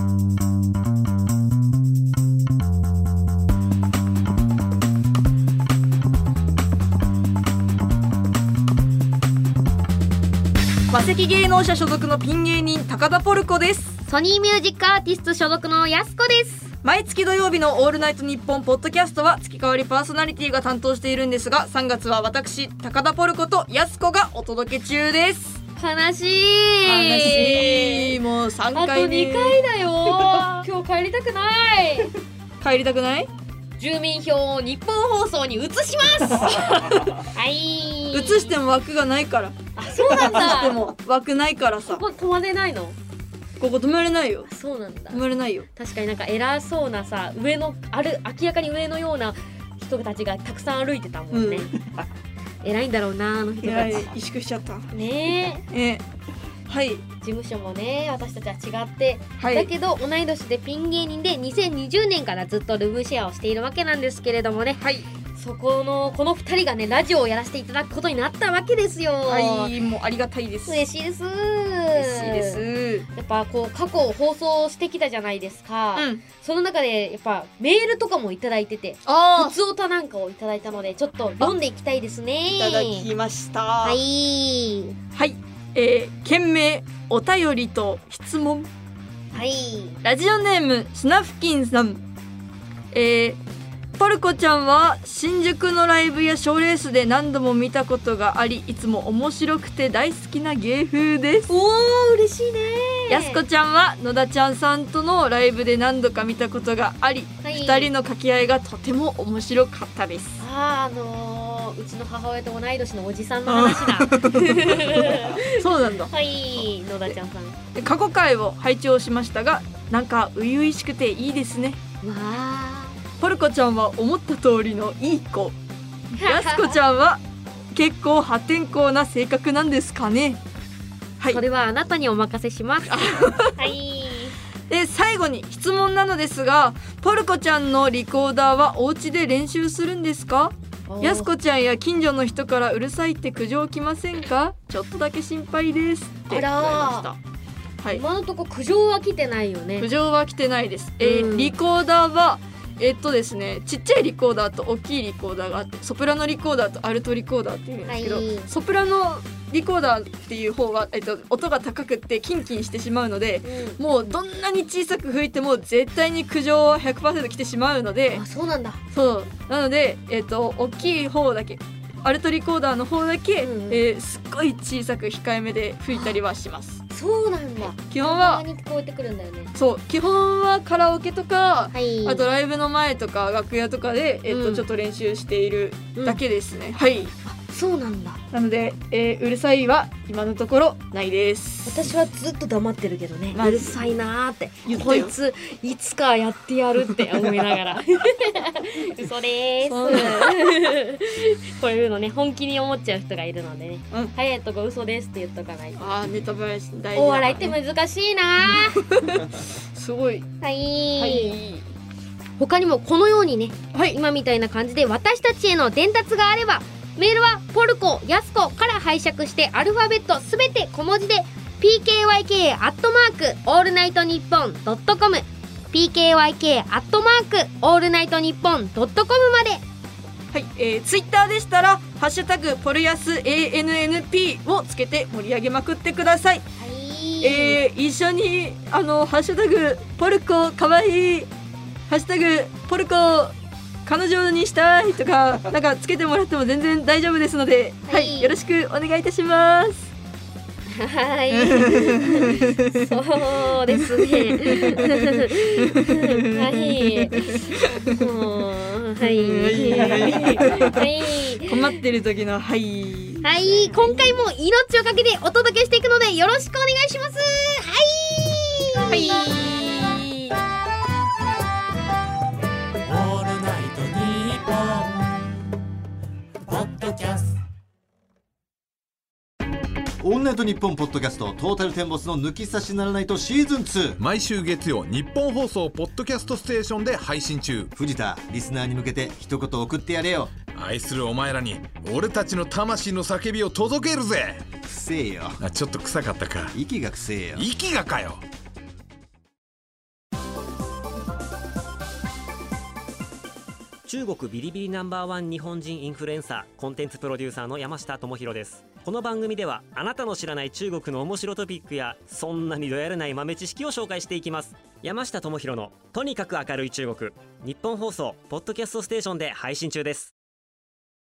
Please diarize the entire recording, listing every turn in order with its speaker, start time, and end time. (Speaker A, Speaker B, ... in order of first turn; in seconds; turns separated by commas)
Speaker A: 10.9-14.0, Speaker B: 14.1-16.7, Speaker A: 16.8-25.6, Speaker B: 25.8-28.1, Speaker A: 26.8-29.6, Speaker B: 28.7-32.1, Speaker A: 30.2-30.4, Speaker A: 32.6-33.3, Speaker B: 33.8-38.5, Speaker A: 36.5-37.2, Speaker A: 38.1-42.0, Speaker B: 39.7-40.8, Speaker B: 41.8-43.0, Speaker A: 43.6-44.5, Speaker B: 44.5-45.2, Speaker A: 45.1-45.7, Speaker B: 45.7-51.7, Speaker A: 51.3-51.8, Speaker B: 52.6-54.1, Speaker A: 53.6-54.9, Speaker B: 54.9-55.6, Speaker A: 55.7-56.0, Speaker A: 56.7-57.0, Speaker B: 57.2-64.8, Speaker A: 59.4-59.7, Speaker A: 64.8-65.0, Speaker B: 65.3-69.7, Speaker A: 69.3-70.8, Speaker B: 70.7-72.6, Speaker A: 71.9-73.1, Speaker B: 73.1-83.1, Speaker A: 75.9-76.2, Speaker A: 79.0-79.5, Speaker A: 82.5-84.0, Speaker B: 83.8-85.0, Speaker A: 85.1-88.7, Speaker B: 89.3-90.0, Speaker A: 90.0-92.0, Speaker A: 92.9-93.4, Speaker A: 94.0-101.5, Speaker B: 101.5-103.4, Speaker A: 103.1-110.4, Speaker B: 107.4-107.9, Speaker B: 110.4-117.6, Speaker A: 113.5-116.1, Speaker A: 117.7-121.8, Speaker B: 122.0-122.9, Speaker A: 123.2-125.5, Speaker B: 126.2-126.8, Speaker A: 126.2-127.2, Speaker A: 127.7-130.4, Speaker B: 131.3-134.4, Speaker A: 132.9-133.6, Speaker A: 134.7-147.2, Speaker B: 140.9-141.3, Speaker B: 146.3-147.1, Speaker B: 147.9-149.9, Speaker A: 149.8-168.2, Speaker B: 151.0-151.5, Speaker B: 157.9-158.5, Speaker B: 163.4-163.8, Speaker B: 168.1-168.8, Speaker A: 168.9-176.8, Speaker B: 173.4-173.8, Speaker B: 176.9-179.5, Speaker A: 177.9-178.4, Speaker A: 179.6-187.1, Speaker B: 181.7-182.2, Speaker B: 184.3-184.7, Speaker B: 187.2-188.2, Speaker A: 188.3-191.8, Speaker B: 191.6-205.9, Speaker A: 193.3-193.8, Speaker A: 194.7-195.1, Speaker A: 199.6-200.4, Speaker A: 205.8-207.5, Speaker B: 206.9-209.1, Speaker A: 208.5-210.3, Speaker B: 210.4-211.3, Speaker A: 211.0-211.7, Speaker B: 212.4-229.6, Speaker A: 213.7-214.0, Speaker A: 230.3-236.4, Speaker B: 236.6-237.6, Speaker A: 237.2-241.3, Speaker A: 241.9-243.3, Speaker A: 243.8-249.9, Speaker B: 247.9-248.3, Speaker B: 250.7-261.8, Speaker A: 251.3-252.9, Speaker A: 253.7-258.0, Speaker A: 259.0-260.8, Speaker A: 261.3-264.1, Speaker B: 263.2-269.4, Speaker A: 268.9-270.4, Speaker C: 272.9-275.1, Speaker C: 276.5-277.4, Speaker D: 280.0-284.0, Speaker E: 284.0-287.7, Speaker D: 287.8-290.3, Speaker E: 290.5-294.4, Speaker D: 294.6-295.4, Speaker E: 295.4-296.5, Speaker D: 296.5-297.4, Speaker E: 297.4-298.2, Speaker F: 303.8-320.1